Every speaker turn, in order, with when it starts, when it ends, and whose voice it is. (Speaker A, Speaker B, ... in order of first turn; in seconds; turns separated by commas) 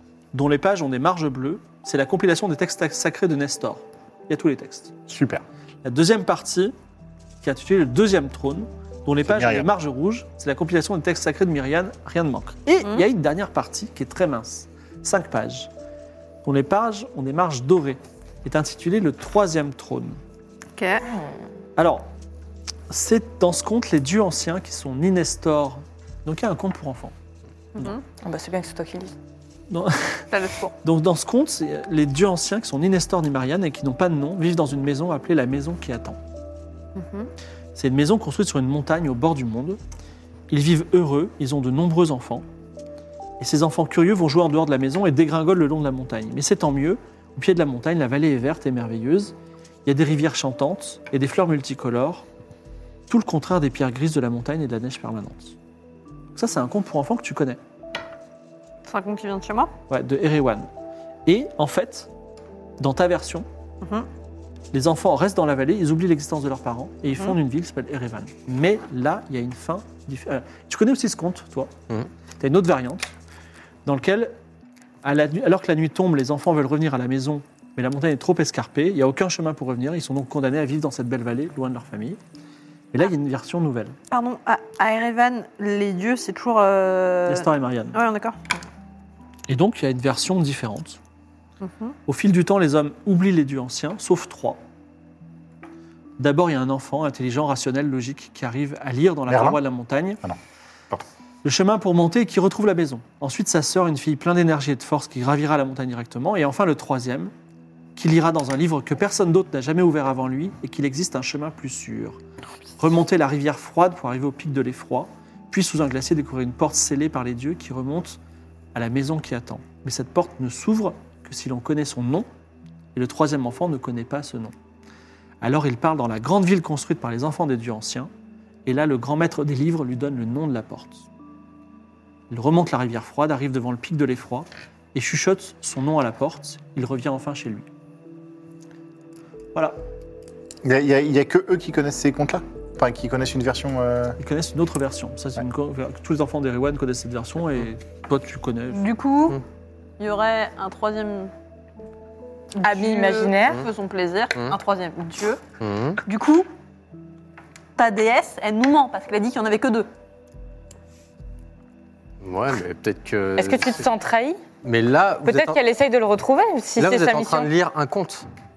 Speaker A: 0.3-5.0, Speaker B: 5.1-5.4, Speaker A: 5.8-6.7, Speaker A: 7.4-15.7, Speaker B: 9.2-9.7, Speaker A: 16.4-20.2, Speaker C: 20.8-21.1, Speaker A: 21.8-22.1, Speaker A: 22.9-27.1, Speaker C: 27.7-28.0, Speaker D: 28.2-29.1, Speaker A: 29.7-30.2, Speaker C: 30.3-30.7, Speaker A: 30.8-36.2, Speaker C: 36.9-37.3, Speaker A: 37.8-39.8, Speaker A: 40.5-42.4, Speaker A: 43.4-49.3, Speaker A: 49.8-52.2, Speaker A: 53.1-55.5, Speaker A: 56.3-57.6, Speaker C: 58.9-59.7, Speaker A: 59.9-60.7, Speaker A: 61.2-62.1, Speaker A: 62.8-63.5, Speaker C: 63.8-64.1, Speaker A: 64.7-71.7, Speaker A: 72.4-73.1, Speaker A: 73.8-74.3, Speaker A: 75.0-82.2, Speaker A: 82.9-84.0, Speaker C: 84.1-88.4, Speaker A: 87.3-88.0, Speaker A: 89.5-91.0, Speaker C: 91.6-91.9, Speaker A: 92.1-94.6, Speaker A: 96.2-100.2, Speaker B: 99.3-99.6, Speaker A: 101.4-107.3, Speaker A: 108.0-112.2, Speaker A: 112.8-118.2, Speaker A: 118.7-122.3, Speaker A: 122.9-124.5, Speaker A: 125.4-128.1, Speaker A: 128.7-131.0, Speaker A: 132.3-137.7, Speaker B: 140.6-144.2, Speaker A: 144.2-148.8, Speaker C: 148.7-149.4, Speaker C: 150.0-151.3, Speaker D: 152.6-153.6, Speaker C: 152.6-155.4, Speaker E: 155.6-156.0, Speaker C: 156.0-156.5, Speaker C: 157.8-159.9, Speaker E: 162.2-163.8, Speaker D: 163.4-164.4, Speaker E: 164.6-165.6, Speaker D: 165.2-167.5, Speaker E: 166.8-168.3